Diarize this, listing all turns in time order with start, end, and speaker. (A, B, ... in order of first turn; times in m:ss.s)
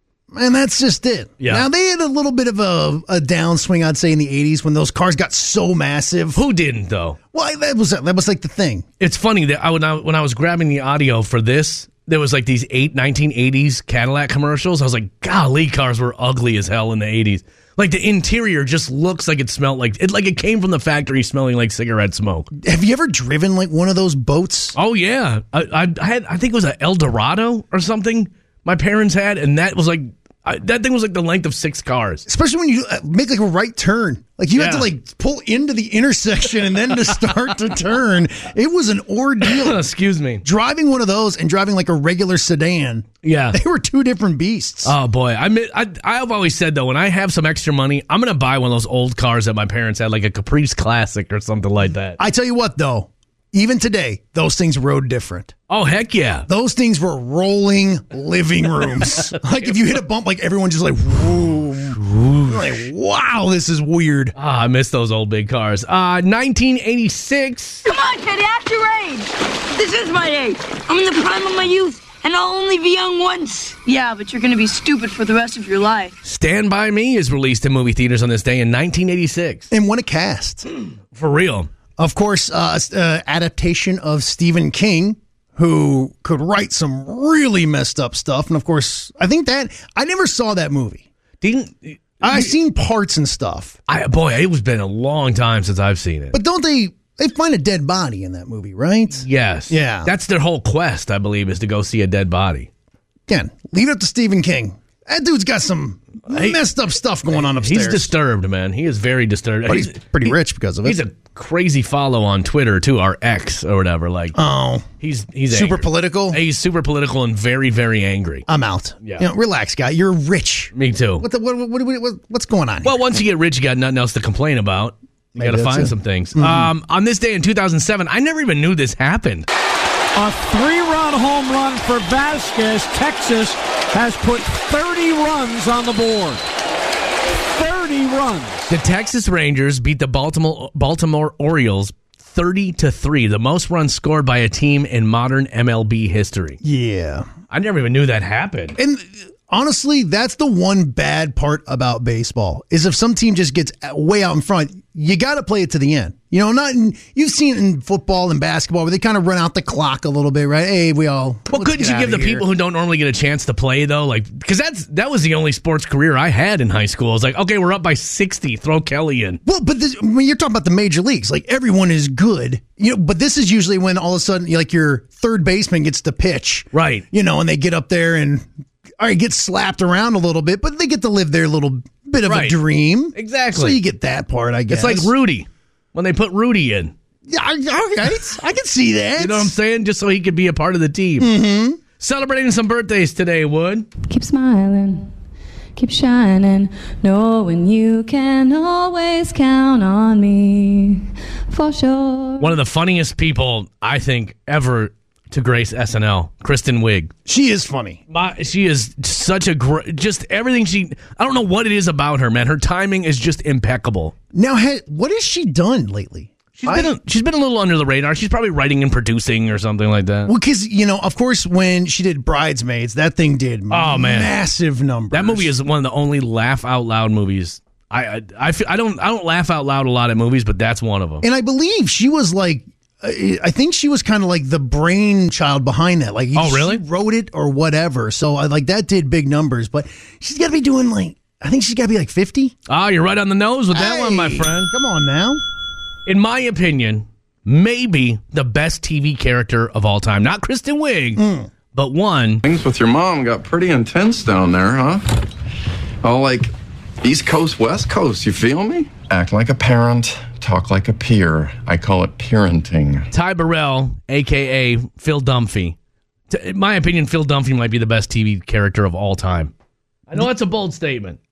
0:00.3-0:06.4 A
0:01.4-0:01.7 B
0:06.3-0:07.2 B
0:07.3-0:08.8 A
0:09.0-0:22.5 B
0:22.6-0:24.8 A
0:24.8-0:32.3 B
0:32.3-0:39.8 A
0:34.5-0:34.9 B
0:39.4-0:40.4 B
0:40.4-0:45.0 A
0:43.2-0:43.6 B
0:44.8-0:52.2 B
0:52.2-0:55.5 A
0:55.7-0:56.5 B
0:56.5-1:04.3 A
0:59.0-0:59.7 B
1:02.0-1:02.8 B
1:04.4-1:07.8 B
1:07.8-1:16.2 C
1:16.2-1:19.7 B
1:19.7-1:20.7 A
1:21.1-1:21.7 B
1:22.0-1:31.1 A
1:31.4-1:32.5 B
1:32.2-1:33.8 A
1:33.9-1:36.4 B
1:36.3-1:40.1 A
1:39.2-1:42.7 B
1:43.3-1:48.1 A
1:46.3-1:46.6 B
1:47.3-1:54.4 B
1:49.7-1:51.0 A
1:54.4-1:54.9 A
1:55.0-1:58.5 B
1:55.5-1:56.4 A
1:58.5-2:03.0 A
1:59.0-1:59.3 B
2:00.7-2:01.2 B
2:02.8-2:09.5 B
2:05.4-2:06.7 A
2:10.2-2:16.4 D
2:17.5-2:18.7 D
2:18.7-2:26.6 B
2:26.6-2:27.3 A
2:27.5-2:28.8 B
2:28.8-2:42.5 A
2:41.5-2:49.4 B
2:49.4-2:58.5 A
2:56.7-2:57.0 B
2:59.0-3:05.1 A
3:02.3-3:02.6 B
3:03.2-3:03.8 B
3:04.7-3:06.9 B
3:07.3-3:09.5 A
3:09.2-3:11.3 B
3:11.2-3:11.8 A
3:12.0-3:13.9 B
3:14.1-3:15.1 E
3:15.8-3:22.6 E
3:22.4-3:27.1 B
3:27.3-3:28.0 A
3:28.1-3:34.2 B
3:34.3-3:36.9 A
3:36.6-3:40.3 B
3:40.3-3:45.5 A
3:43.7-3:44.3 B
3:45.1-3:51.2 B
3:51.2-4:02.6 A
3:56.4-3:56.8 B
4:02.7-4:04.7 B
4:03.7-4:05.4 A
4:06.1-4:11.2 B
4:11.2-4:11.5 A
4:11.7-4:12.4 B
4:12.4-4:15.0 F
4:16.0-4:16.5 F
4:17.0-4:23.1 F
4:23.1-4:25.8 B
4:26.3-4:29.5 B
4:30.1-4:31.2 B